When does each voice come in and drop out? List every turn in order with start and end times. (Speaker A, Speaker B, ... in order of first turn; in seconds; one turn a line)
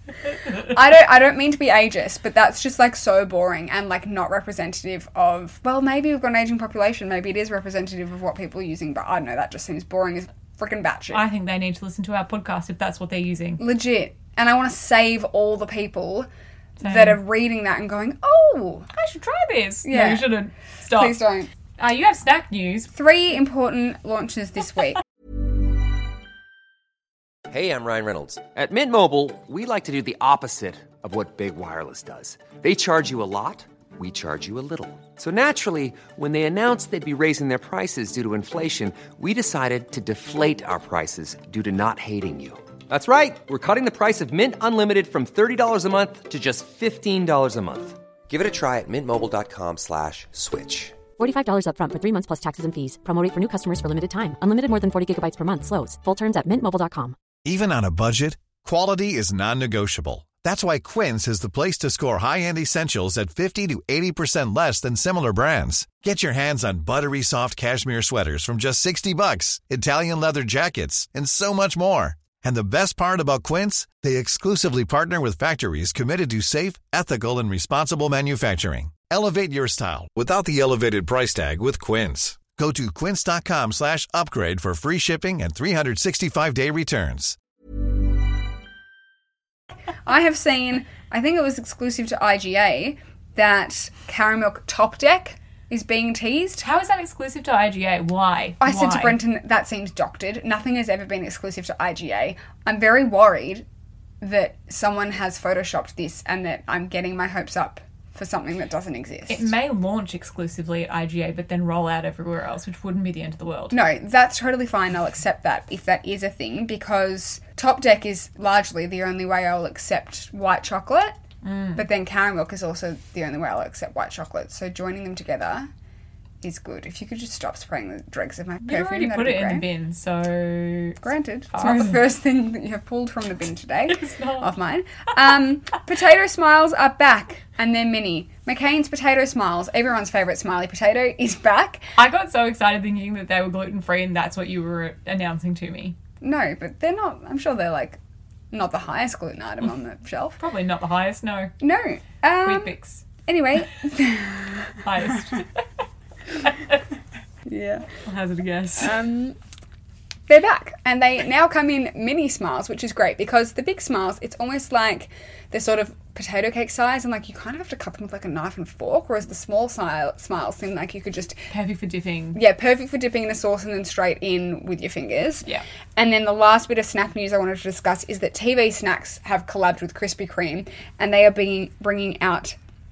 Speaker A: 0.3-0.6
Speaker B: 0.6-11.2
Speaker A: 11.1-13.6
Speaker B: 13.6-16.3
Speaker A: 16.8-17.2
Speaker B: 16.8-18.9
Speaker A: 18.9-21.2
Speaker B: 19.9-20.3
Speaker B: 20.9-21.5
Speaker A: 21.8-22.9
Speaker B: 22.9-25.0
Speaker C: 27.5-51.0
Speaker D: 51.2-57.1
Speaker E: 57.4-87.4
Speaker B: 90.0-96.6
Speaker A: 96.6-99.2
Speaker B: 98.6-103.6
Speaker B: 104.2-109.5
Speaker A: 109.3-113.8
Speaker B: 113.7-121.2
Speaker A: 121.4-121.9
Speaker B: 121.8-125.7
Speaker B: 126.4-129.6
Speaker A: 128.6-131.0
Speaker B: 131.0-141.8
Speaker A: 131.5-132.0
Speaker A: 133.9-134.5
Speaker A: 142.0-146.0
Speaker B: 146.2-148.0
Speaker B: 148.5-150.4
Speaker A: 150.4-151.5
Speaker B: 151.6-152.7
Speaker A: 152.4-153.1
Speaker B: 153.2-155.2
Speaker A: 154.8-155.6
Speaker A: 156.4-156.8
Speaker B: 157.5-157.9
Speaker A: 158.0-159.0
Speaker B: 158.8-159.4
Speaker B: 160.3-171.4
Speaker A: 171.5-172.4
Speaker B: 172.3-182.6